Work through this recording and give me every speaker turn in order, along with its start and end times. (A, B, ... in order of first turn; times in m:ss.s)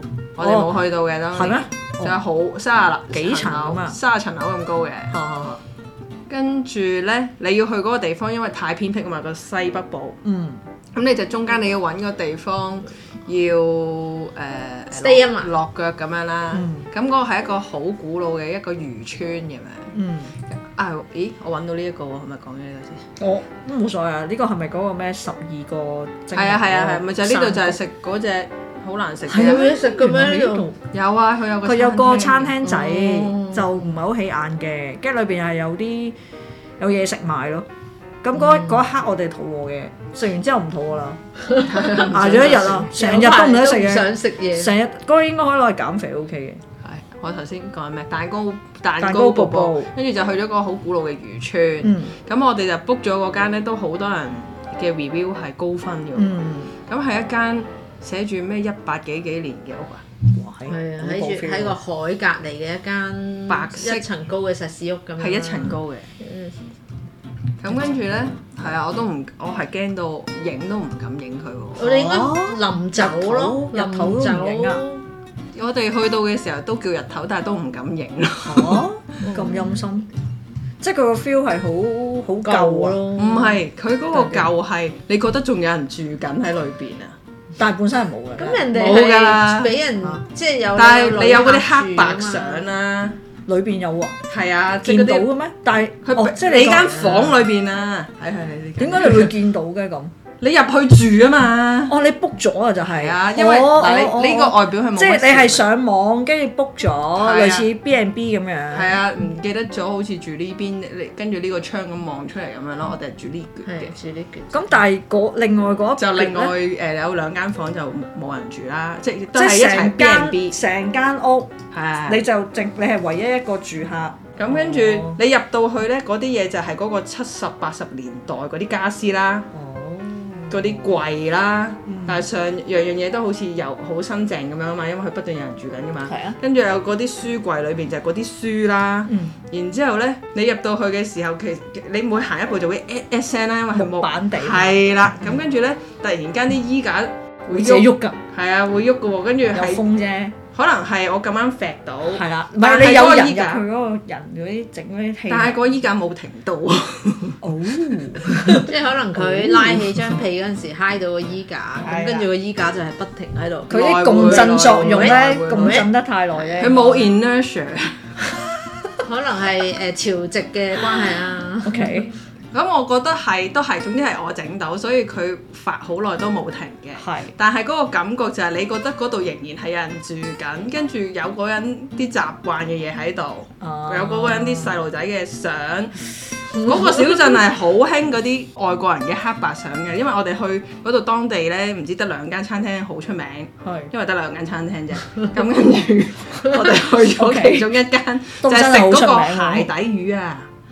0:00.4-0:05.1 A
0:00.4-0:00.7 B
0:01.3-0:02.2 B
0:03.1-0:04.0 B
0:05.1-0:05.6 B
0:06.3-0:10.2 A
0:10.2-0:10.6 B
0:11.0-0:19.9 A
0:14.9-0:15.5 C
0:16.5-0:16.9 B
0:19.9-0:20.3 B
0:20.5-0:23.1 A
0:23.2-0:27.8 B
0:26.3-0:29.8 A
0:29.3-0:30.8 B
0:29.3-0:30.7 C
0:30.9-0:33.3 A
0:31.6-0:36.2 B
0:33.1-0:33.9 C
0:36.8-0:37.7 B
0:38.2-0:41.2 B
0:38.5-0:38.8 C
0:41.4-0:44.8 C
0:41.6-0:42.9 A
0:41.9-0:46.6 B
0:46.8-1:00.0 A
0:49.0-0:49.9 B
0:51.8-0:52.1 B
0:56.2-0:56.7 B
1:00.3-1:01.8 B
1:00.6-1:06.6 C
1:03.5-1:04.1 A
1:05.2-1:06.1 A
1:07.6-1:11.9 A
1:11.8-1:15.0 C
1:11.8-1:14.8 B
1:15.5-1:18.9 A
1:18.4-1:20.1 B
1:19.3-1:19.7 C
1:20.8-1:23.0 B
1:22.4-1:23.6 C
1:23.2-1:27.2 A
1:24.1-1:24.5 B
1:27.6-1:28.7 B
1:28.4-1:32.7 C
1:28.7-1:29.8 A
1:30.8-1:33.2 A
1:33.5-1:34.2 B
1:34.3-1:35.3 A
1:34.8-1:37.4 B
1:36.0-1:39.4 A
1:38.8-1:40.1 B
1:40.4-1:41.9 A
1:41.9-1:49.0 B
1:42.9-1:45.7 A
1:47.2-1:47.7 A
1:48.7-1:53.9 A
1:53.6-1:54.8 C
1:54.5-1:56.5 B
1:56.0-2:00.6 A
1:59.3-2:01.5 B
2:01.7-2:02.3 A
2:02.1-2:05.2 B
2:04.4-2:09.5 A
2:09.5-2:11.0 B
2:10.5-2:29.8 A
2:11.9-2:12.2 B
2:16.1-2:16.4 B
2:19.1-2:19.4 B
2:23.8-2:25.2 B
2:27.5-2:28.2 B
2:29.5-2:30.4 B
2:30.5-2:33.6 A
2:32.1-2:35.6 B
2:35.3-2:38.0 A
2:37.4-2:40.2 B
2:38.5-2:46.7 C
2:41.8-2:42.3 A
2:43.7-2:45.9 A
2:43.7-2:47.2 B
2:46.6-2:48.1 A
2:49.0-2:52.0 C
2:51.6-2:52.1 B
2:52.5-3:20.5 A
2:57.0-2:57.3 B
3:03.6-3:04.8 B
3:06.5-3:07.3 C
3:13.6-3:13.9 B
3:17.0-3:17.7 B
3:18.4-3:19.7 B